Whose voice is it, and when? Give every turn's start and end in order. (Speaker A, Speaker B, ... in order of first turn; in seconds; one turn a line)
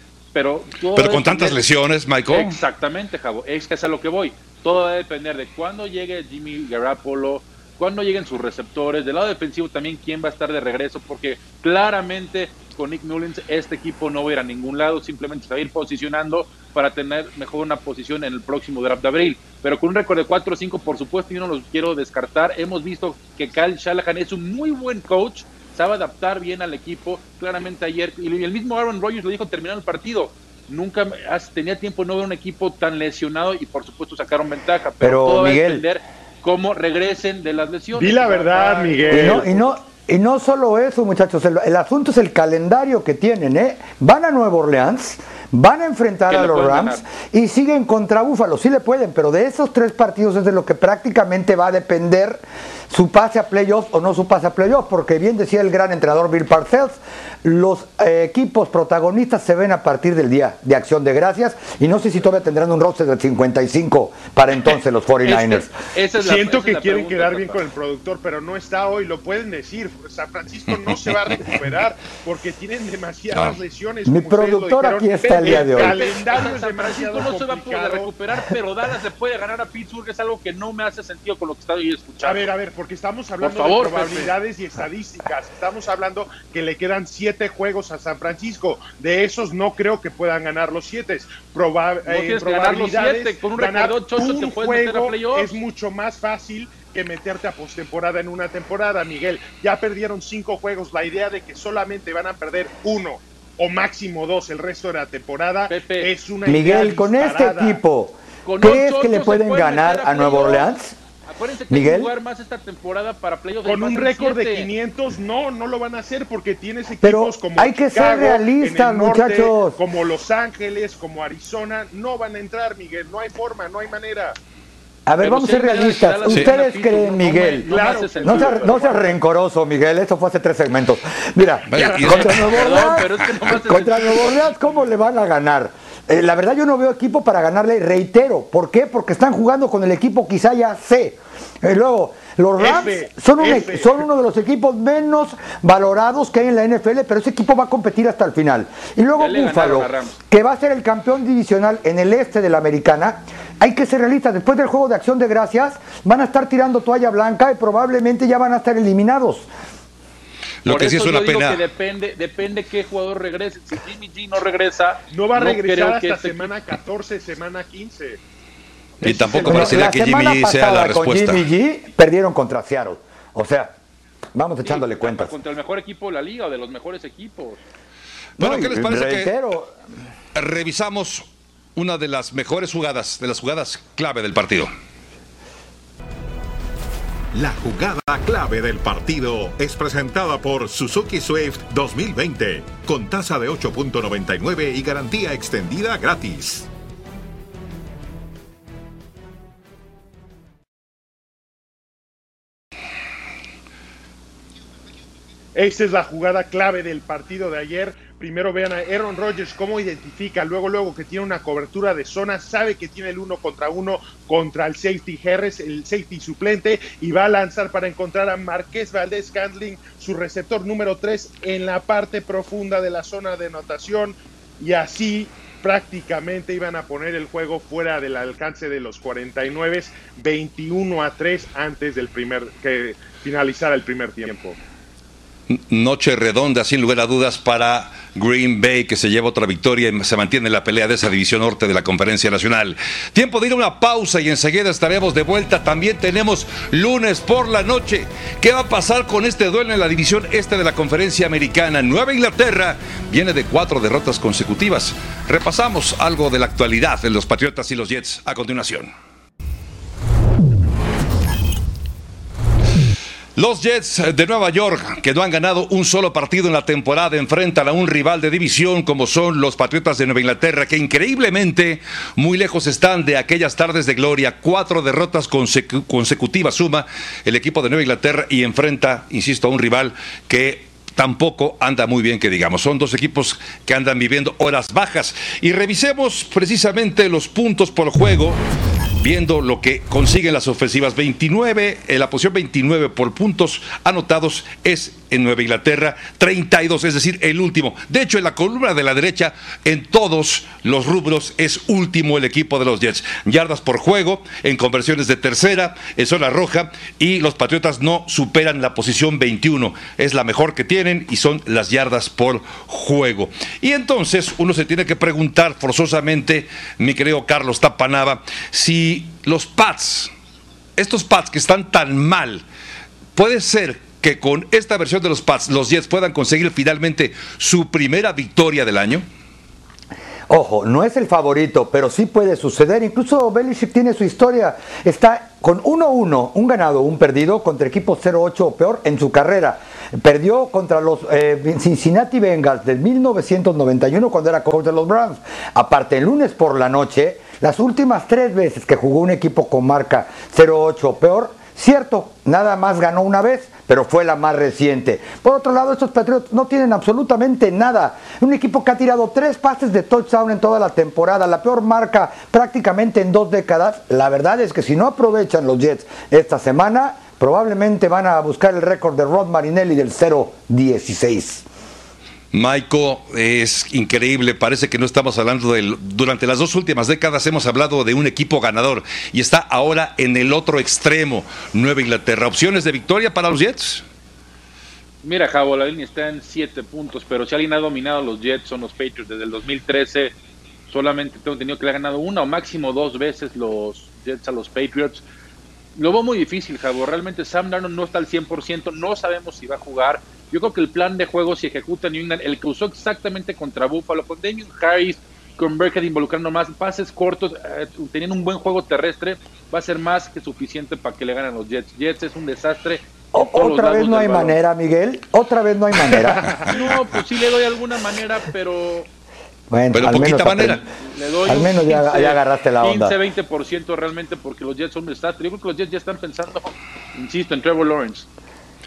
Speaker A: 0.3-1.6
Speaker B: 0.9-2.6
Speaker A: 2.3-39.7
Speaker C: 35.0-35.8
Speaker D: 37.9-39.5
Speaker C: 39.1-65.7
Speaker A: 46.3-47.0
Speaker A: 65.2-67.6
Speaker D: 66.2-78.1
Speaker C: 74.1-76.0
Speaker A: 75.3-82.5
Speaker D: 82.2-107.8
Speaker A: 83.4-84.3
Speaker A: 92.0-95.6
Speaker A: 105.7-106.1
Speaker C: 106.4-111.0
Speaker A: 108.4-110.7
Speaker A: 111.3-114.7
Speaker C: 111.7-112.1
Speaker D: 113.6-124.4
Speaker C: 117.0-119.8
Speaker C: 125.0-159.5
Speaker A: 125.2-129.0
Speaker D: 127.7-129.0
Speaker B: 131.7-132.6
Speaker A: 132.2-134.5
Speaker D: 142.6-144.0
Speaker A: 149.2-150.1
Speaker B: 160.6-161.6
Speaker A: 160.7-166.5
Speaker D: 165.1-168.2
Speaker D: 169.0-169.9
Speaker B: 169.0-171.4
Speaker C: 169.4-173.7
Speaker C: 174.3-175.3
Speaker A: 174.6-177.6
Speaker B: 178.4-179.3
Speaker C: 178.4-179.7
Speaker B: 180.3-184.7
Speaker E: 187.3-196.7
Speaker D: 205.5-234.6
Speaker B: 235.5-258.9
Speaker B: 263.4-288.4
Speaker B: 289.0-320.1
Speaker B: 320.8-322.4
Speaker B: 323.1-329.0
Speaker C: 330.3-371.4
Speaker B: 372.3-383.8
Speaker A: 385.0-390.1
Speaker A: 390.7-395.0
Speaker A: 395.8-414.4
Speaker C: 413.1-416.5
Speaker A: 416.3-418.9
Speaker C: 419.5-420.6
Speaker B: 419.7-420.6
Speaker A: 420.8-428.1
Speaker C: 421.2-423.0